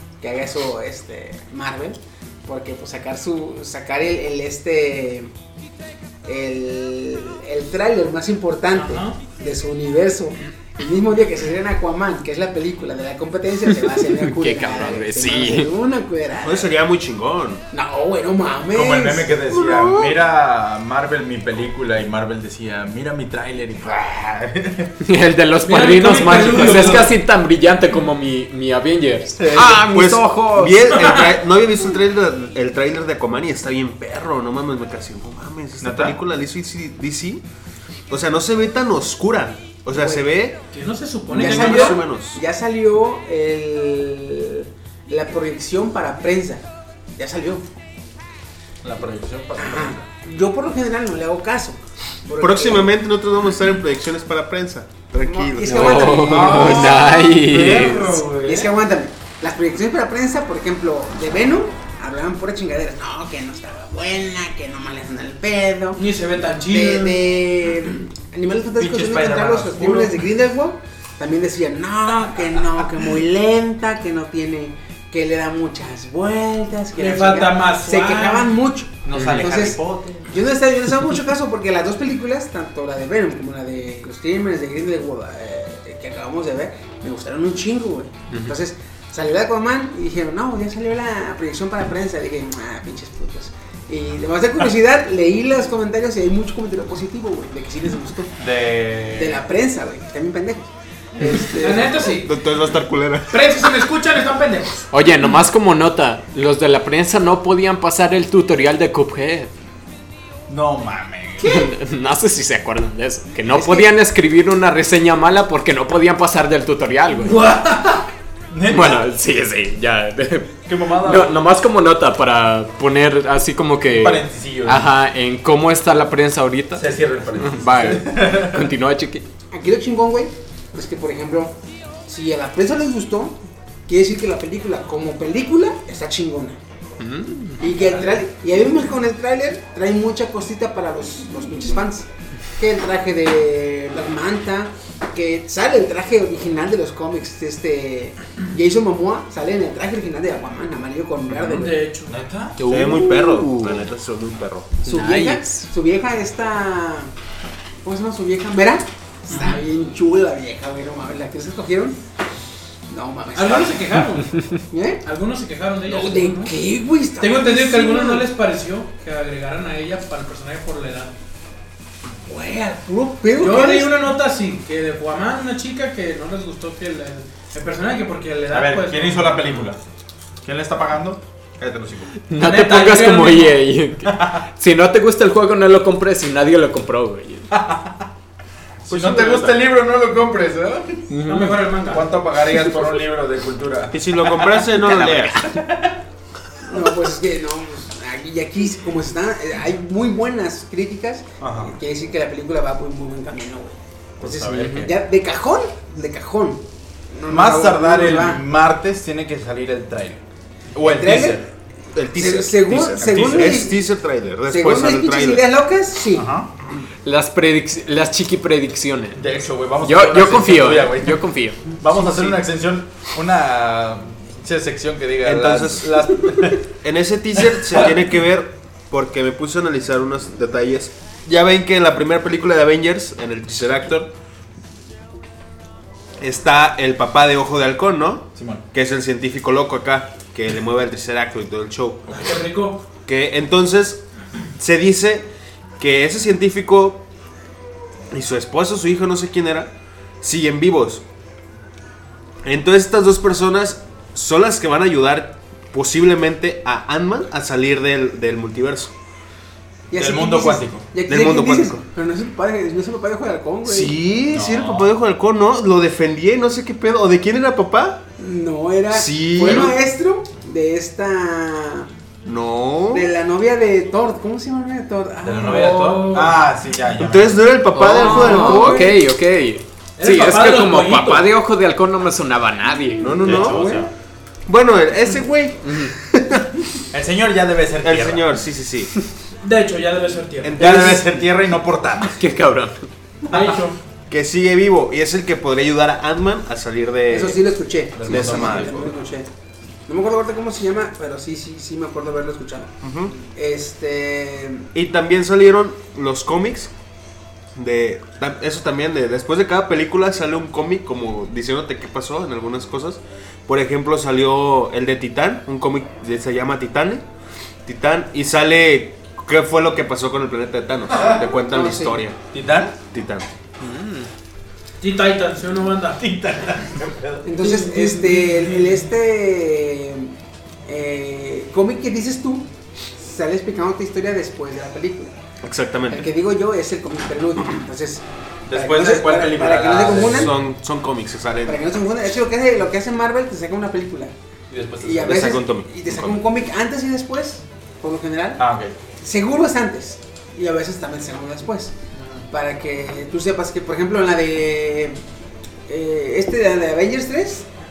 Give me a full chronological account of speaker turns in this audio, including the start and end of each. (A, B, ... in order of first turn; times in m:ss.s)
0:00.2-0:05.3 A
0:06.2-0:16.7 A
0:08.7-0:09.2 B
0:14.1-0:15.7 C
0:16.4-0:17.6 D
0:17.7-0:19.4 A
0:18.7-0:24.9 E
0:19.5-0:20.1 D
0:25.0-0:30.9 C
0:25.6-0:27.2 B
0:26.0-0:27.1 E
0:29.4-0:29.9 E
0:29.6-0:37.4 D
0:30.9-0:31.4 B
0:35.8-0:36.2 E
0:38.1-0:40.6 D
0:39.9-0:40.3 A
0:40.7-0:42.0 B
0:41.3-0:42.4 D
0:41.4-0:46.6 A
0:47.2-0:47.6 A
0:48.8-0:50.0 E
0:49.6-0:52.9 A
0:52.4-0:56.0 D
0:55.2-0:57.2 A
0:55.7-0:58.2 C
0:56.1-0:58.7 E
0:58.3-1:06.0 A
1:06.0-1:07.2 B
1:06.7-1:38.3 A
1:08.8-1:10.2 E
1:17.0-1:18.6 B
1:19.0-1:20.3 E
1:19.1-1:19.5 C
1:28.3-1:28.6 C
1:38.4-1:39.4 E
1:39.1-1:42.1 A
1:41.2-1:42.4 B
1:42.0-1:43.7 D
1:43.3-1:44.9 B
1:44.9-1:49.5 C
1:50.5-1:51.7 E
1:51.4-1:57.4 C
1:53.5-1:53.9 A
1:57.2-1:58.1 B
1:58.5-1:59.0 E
1:58.7-2:06.9 C
2:00.7-2:01.5 E
2:03.8-2:04.9 E
2:06.7-2:08.7 E
2:07.4-2:09.2 C
2:09.5-2:11.5 A
2:12.1-2:16.6 A
2:17.0-2:17.6 C
2:17.6-2:31.8 A
2:17.7-2:18.1 E
2:31.3-2:32.2 B
2:32.0-2:32.6 E
2:32.6-2:33.8 C
2:32.6-2:34.7 D
2:34.8-2:35.6 C
2:34.8-2:37.1 A
2:37.8-2:42.0 A
2:39.3-2:39.6 B
2:42.9-2:43.9 A
2:43.3-2:44.3 B
2:44.3-2:44.6 C
2:44.7-2:45.0 A
2:45.0-2:46.6 B
2:45.9-2:48.3 A
2:47.2-2:51.1 B
2:52.3-2:53.9 A
2:53.4-2:59.7 B
2:58.5-2:59.8 E
3:00.4-3:02.1 E
3:02.3-3:07.5 C
3:02.4-3:03.6 B
3:04.0-3:04.4 E
3:07.5-3:08.0 E
3:08.8-3:11.1 E
3:08.9-3:09.5 D
3:09.0-3:09.5 C
3:11.1-3:11.6 C
3:11.2-3:12.1 B
3:11.9-3:16.0 E
3:13.9-3:15.4 D
3:15.0-3:15.6 C
3:16.6-3:28.4 A
3:21.4-3:21.7 E
3:24.2-3:24.9 E
3:24.5-3:24.9 C
3:27.3-3:30.2 E
3:30.7-3:31.4 E
3:30.8-3:31.4 A
3:31.9-3:35.4 D
3:32.1-3:33.8 A
3:33.0-3:33.6 E
3:34.5-3:36.3 A
3:36.1-3:36.5 E
3:37.0-3:39.2 C
3:39.1-3:46.6 E
3:39.8-3:42.3 C
3:45.2-3:46.2 D
3:46.8-3:54.1 D
3:47.4-3:47.9 E
3:56.2-4:02.2 D
3:58.4-3:58.6 E
4:02.1-4:02.8 B
4:03.0-4:04.0 D
4:04.6-4:05.3 D
4:05.8-4:07.0 D
4:08.1-4:11.0 D
4:12.4-4:18.9 D
4:19.9-4:24.0 A
4:19.9-4:20.8 E
4:21.1-4:21.8 D
4:23.6-4:28.0 D
4:24.3-4:24.9 E
4:28.2-4:31.9 A
4:28.9-4:29.8 D
4:32.2-4:33.1 D
4:32.9-4:36.2 A
4:35.2-4:37.6 E
4:35.5-4:36.4 B
4:37.0-4:38.9 D
4:37.7-4:43.4 C
4:38.0-4:39.0 A
4:40.0-4:41.3 B
4:43.0-4:43.7 D
4:43.2-4:43.9 E
4:43.3-4:43.7 B
4:44.5-4:46.5 D
4:45.6-4:45.9 C
4:46.9-4:48.3 E
4:47.8-4:48.9 D
4:49.4-4:50.6 B
4:50.4-4:51.2 D
4:50.6-4:52.2 E
4:52.2-4:52.9 C
4:53.3-4:53.7 E
4:53.3-4:53.7 B
4:54.1-4:57.4 D
4:57.1-4:59.3 A
4:57.9-4:58.9 E
4:58.0-4:58.9 D
4:59.9-5:02.7 A
5:02.8-5:03.1 D
5:03.3-5:04.7 A
5:04.7-5:06.7 D
5:07.5-5:17.0 D
5:17.6-5:22.2 D
5:21.4-5:22.0 A
5:22.3-5:22.8 E
5:22.9-5:23.3 D
5:23.6-5:24.1 C
5:24.8-5:26.0 B
5:26.0-5:27.2 E
5:27.2-5:30.1 A
5:27.4-5:28.8 B
5:30.6-5:32.5 A
5:33.0-5:35.1 A
5:35.4-5:36.1 D
5:35.9-5:40.3 A
5:38.5-5:40.4 E
5:39.8-5:41.6 D
5:41.4-5:44.1 A
5:44.5-5:45.4 E
5:44.8-5:48.4 A
5:44.9-5:46.2 D
5:48.4-5:48.7 E
5:49.0-5:51.7 A
5:52.3-5:55.0 A
5:55.7-5:57.5 A